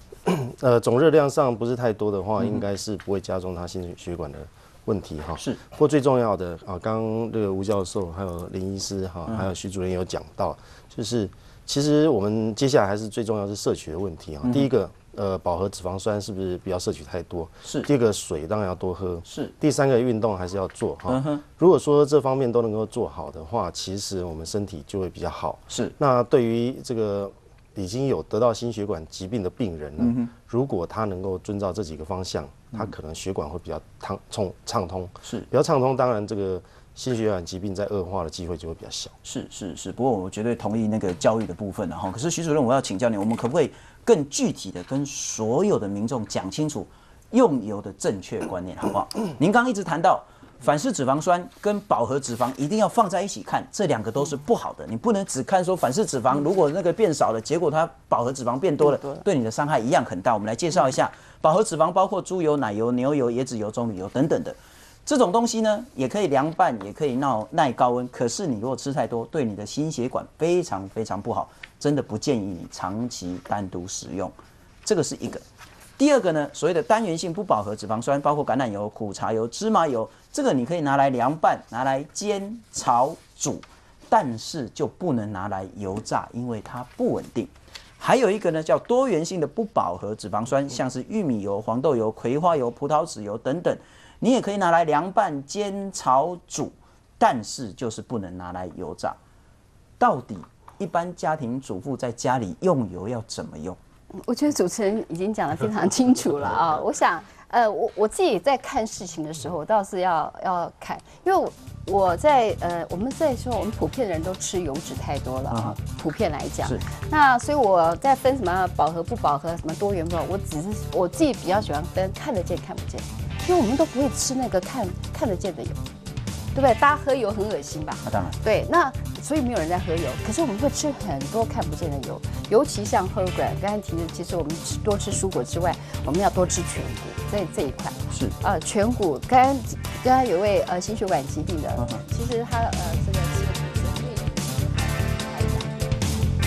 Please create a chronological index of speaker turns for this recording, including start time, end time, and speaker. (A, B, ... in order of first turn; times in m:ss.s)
0:00.3-0:39.1 A
0:19.2-0:19.5 B
0:21.1-0:21.4 B
0:30.0-0:30.3 B
0:39.2-1:15.4 B
1:16.0-1:39.2 B
1:40.0-1:43.8 B
1:44.2-2:05.8 C
1:55.5-1:55.8 B
2:06.5-2:25.9 C
2:08.0-2:08.4 B